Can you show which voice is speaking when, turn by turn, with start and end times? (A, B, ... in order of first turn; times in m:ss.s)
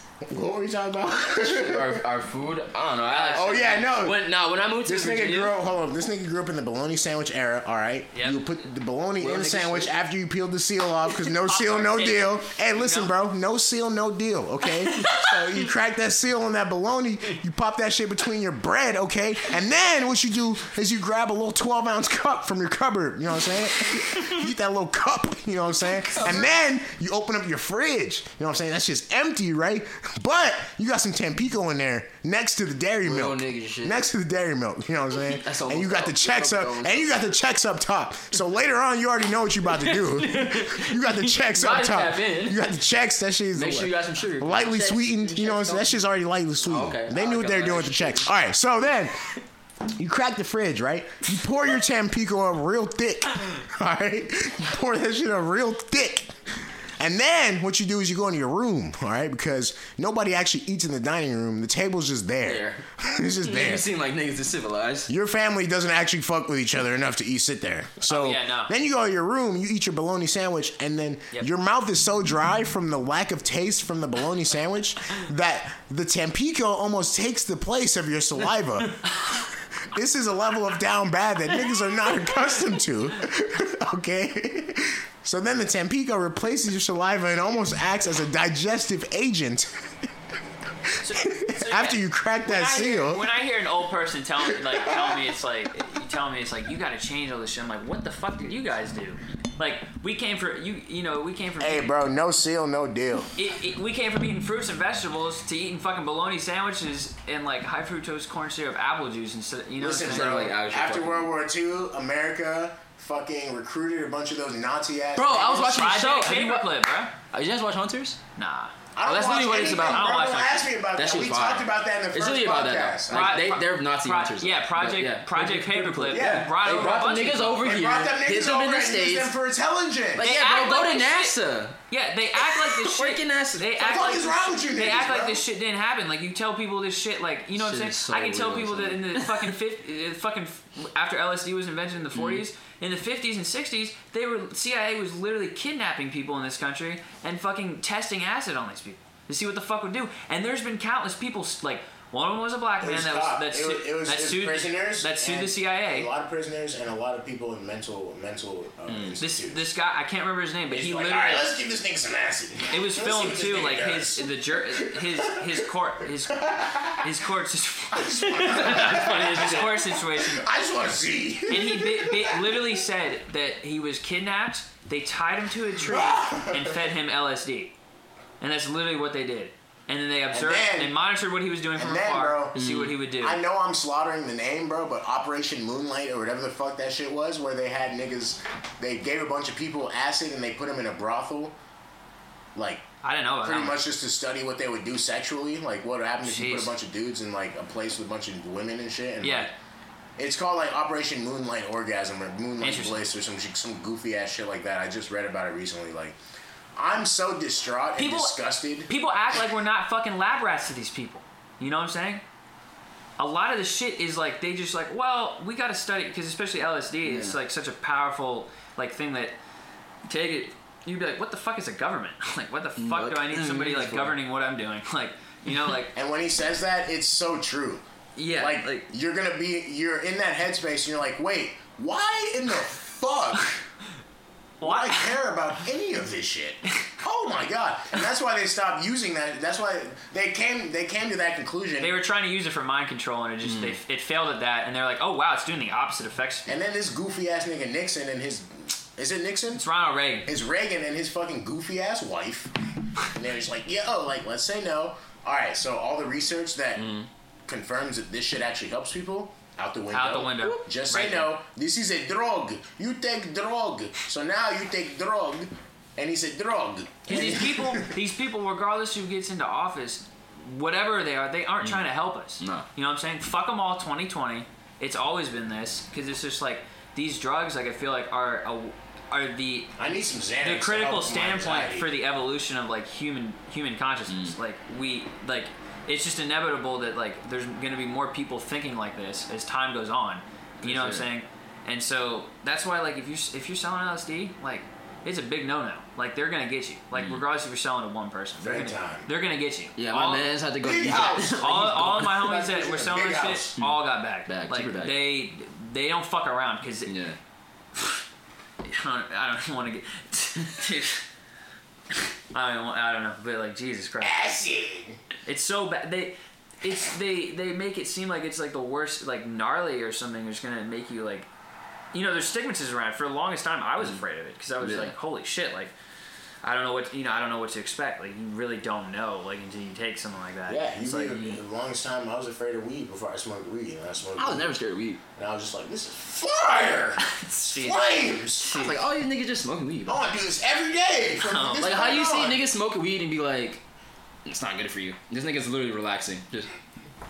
0:00.2-0:02.0 A
0:01.4-0:05.6 B
0:03.0-0:03.7 C
0:03.3-0:04.2 A
0:04.8-0:49.3 A
0:08.1-0:08.5 C
0:09.2-0:09.9 B
0:11.3-0:13.1 C
0:15.0-0:15.3 B
0:26.1-0:26.5 B
0:33.0-0:34.0 B
0:35.3-0:37.2 B
0:39.7-0:42.7 B
0:43.5-0:46.0 B
0:46.6-0:48.3 B
0:49.9-0:56.4 A
0:57.0-1:03.9 A
1:02.4-1:02.8 B
1:03.4-1:05.1 B
1:05.1-1:19.0 A
1:08.0-1:08.7 C
1:19.9-1:29.9 A
1:30.9-1:33.3 A
1:31.0-1:42.0 C
1:34.8-1:35.2 A
1:41.6-1:43.3 A
1:43.4-1:50.5 C
1:49.8-1:55.8 A
1:50.0-1:51.3 B
1:55.2-1:56.8 B
1:55.6-1:57.1 C
1:57.3-1:58.2 B
1:58.4-1:58.7 C
1:58.9-2:03.5 A
1:59.0-2:00.1 B
1:59.7-2:00.7 C
2:01.0-2:09.3 B
2:03.1-2:07.7 C
2:06.1-2:06.9 A
2:07.6-2:10.3 A
2:10.2-2:11.8 B
2:10.2-2:11.4 C
2:11.9-2:36.1 C
2:12.4-2:13.8 B
2:13.8-2:15.4 A
2:17.5-2:19.5 B
2:22.1-2:22.4 B
2:32.8-2:39.6 A
2:38.9-2:39.2 B
2:39.2-2:41.5 C
2:40.7-2:45.7 A
2:42.7-2:50.4 C
2:46.4-2:47.1 A
2:47.9-2:52.6 A
2:51.5-2:57.7 C
2:55.8-2:56.8 A
2:58.4-3:03.4 C
3:00.3-3:00.9 A
3:01.8-3:02.6 A
3:02.5-3:03.0 B
3:03.2-3:11.5 A
3:12.5-3:12.8 A
3:13.0-3:13.8 C
3:13.4-3:19.5 A
3:16.2-3:16.7 C
3:19.2-3:19.5 C
3:20.2-3:26.2 A
3:22.6-3:23.0 C
3:26.8-3:28.9 A
3:28.0-3:32.2 C
3:33.2-3:39.3 C
3:37.0-3:37.4 B
3:40.1-3:45.9 C
3:42.8-3:44.2 B
3:45.9-3:47.8 A
3:48.2-3:48.8 C
3:48.3-3:53.6 A
3:54.6-3:55.1 C
3:54.6-4:02.0 A
4:01.8-4:06.5 C
4:03.5-4:03.7 B
4:06.4-4:09.6 A
4:09.5-4:10.3 C
4:10.2-4:12.5 A
4:13.0-4:16.9 A
4:16.8-4:17.1 B
4:17.5-4:27.9 A
4:19.9-4:21.3 C
4:27.1-4:39.7 C
4:32.4-4:32.6 B
4:39.8-4:41.9 A
4:40.4-5:00.4 C
4:44.1-4:44.4 B
4:50.6-4:51.1 B
4:56.9-4:57.2 B
4:58.4-4:59.1 A
4:59.8-5:02.1 B
5:00.6-5:03.5 A
5:00.9-5:06.9 C
5:03.6-5:05.0 B
5:06.8-5:07.2 B
5:07.7-5:08.0 C
5:08.6-5:11.0 C
5:12.3-5:14.3 C
5:14.0-5:15.0 A
5:15.2-5:21.3 C
5:21.9-5:25.7 C
5:24.6-5:24.9 B
5:26.4-5:31.3 C
5:30.5-5:34.5 A
5:34.2-5:35.0 B
5:35.2-5:38.5 A
5:37.0-5:38.8 C
5:38.5-5:40.0 B
5:39.9-5:42.4 A
5:41.2-5:41.8 C
5:41.6-5:43.6 B
5:44.2-5:46.5 B